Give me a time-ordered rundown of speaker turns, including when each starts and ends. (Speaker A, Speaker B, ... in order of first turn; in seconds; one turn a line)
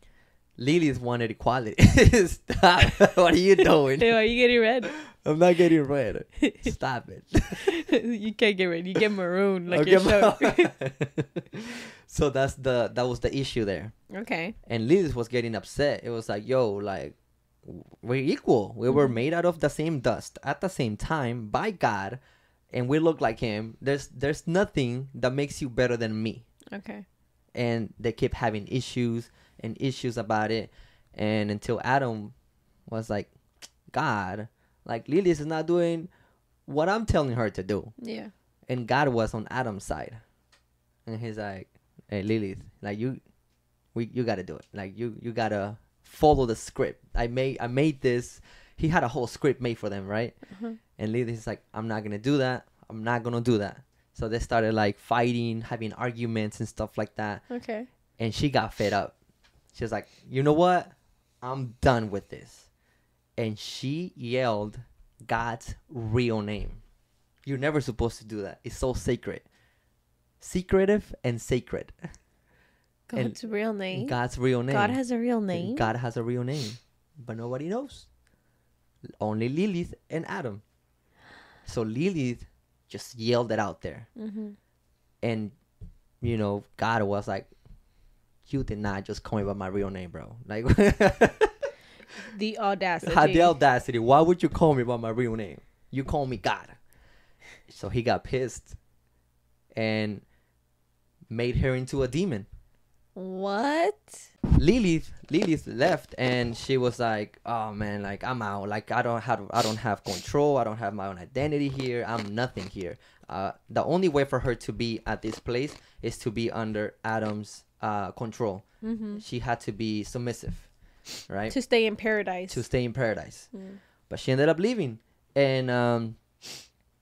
Speaker A: 0.6-4.3
Speaker B: 4.0-4.9
Speaker A: 5.0-7.7
Speaker B: 6.4-6.7
Speaker B: 7.6-10.7
Speaker A: 9.7-13.9
Speaker B: 14.1-14.6
Speaker A: 14.6-22.2
Speaker B: 18.9-19.1
Speaker A: 22.7-26.5
Speaker B: 26.7-27.0
Speaker A: 27.5-32.3
Speaker A: 32.9-33.3
Speaker A: 33.9-36.1
Speaker A: 36.6-37.9
Speaker B: 38.0-38.3
Speaker A: 38.7-40.2
Speaker A: 41.0-43.2
Speaker A: 43.9-57.5
Speaker B: 50.5-50.8
Speaker B: 57.5-57.9
Speaker A: 58.2-59.1
Speaker A: 59.7-62.7
Speaker A: 63.4-66.8
Speaker A: 67.4-69.4
Speaker A: 70.4-72.1
Speaker B: 73.1-75.9
Speaker A: 73.9-78.1
Speaker A: 79.2-80.6
Speaker A: 81.6-84.1
Speaker B: 84.2-84.5
Speaker A: 85.2-85.5
Speaker A: 86.2-87.5
Speaker A: 88.4-91.5
Speaker B: 92.3-93.5
Speaker A: 93.0-96.8
Speaker A: 97.7-98.8
Speaker A: 99.7-100.2
Speaker A: 101.3-102.5
Speaker B: 103.1-104.3
Speaker A: 104.5-120.7
Speaker B: 118.8-119.2
Speaker A: 121.3-121.5
Speaker B: 121.5-122.6
Speaker A: 122.5-123.5
Speaker B: 123.5-123.8
Speaker A: 124.1-126.2